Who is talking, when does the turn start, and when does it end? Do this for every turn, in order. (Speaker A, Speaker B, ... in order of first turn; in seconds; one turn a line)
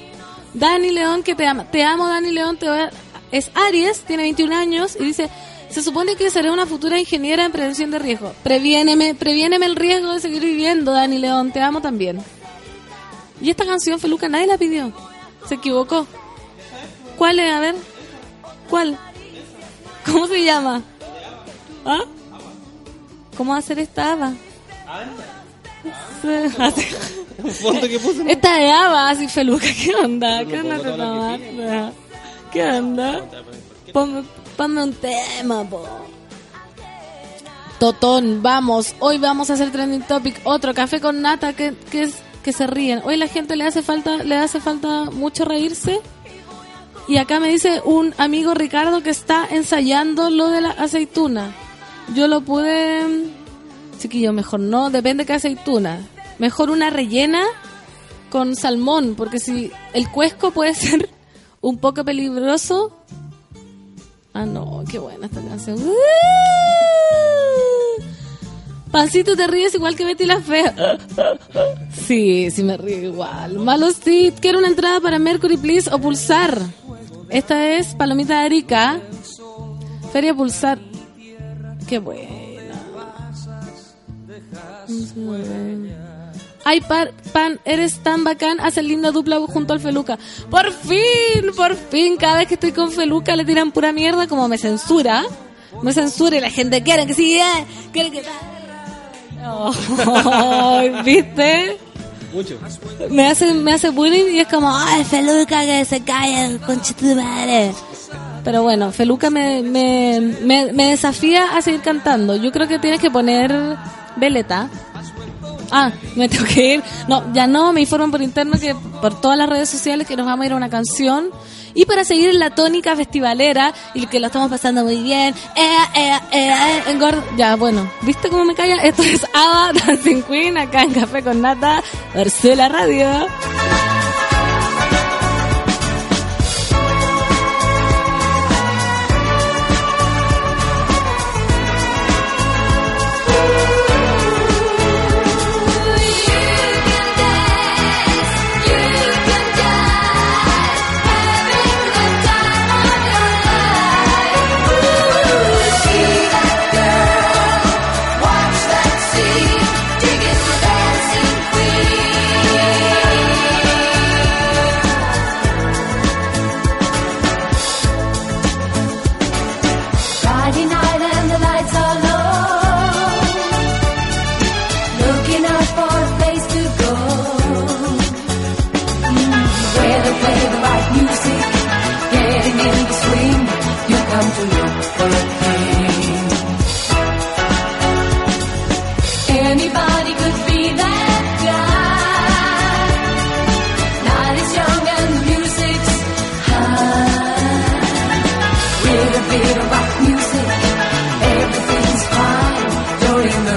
Speaker A: 0.5-12.3
Speaker A: 13.4-16.1
Speaker A: 17.1-17.8
Speaker A: 18.7-19.0
Speaker A: 20.0-20.9
Speaker A: 23.4-24.4
Speaker B: 24.9-25.2
Speaker A: 26.0-31.9
Speaker B: 27.4-28.4
Speaker B: 30.3-31.8
Speaker A: 32.5-33.3
Speaker B: 33.2-33.9
Speaker A: 33.9-36.1
Speaker A: 37.8-46.0
Speaker A: 47.1-51.5
Speaker A: 52.1-53.4
Speaker A: 54.0-57.5
Speaker A: 58.3-63.0
Speaker A: 64.3-68.0
Speaker A: 68.9-76.7
Speaker A: 77.3-79.0
Speaker A: 80.1-80.8
Speaker A: 81.8-83.1
Speaker A: 84.9-86.0
Speaker A: 86.6-95.3
Speaker A: 95.8-98.5
Speaker A: 99.4-101.8
Speaker B: 102.3-102.7
Speaker A: 103.0-107.8
Speaker A: 108.4-114.7
Speaker A: 115.7-133.3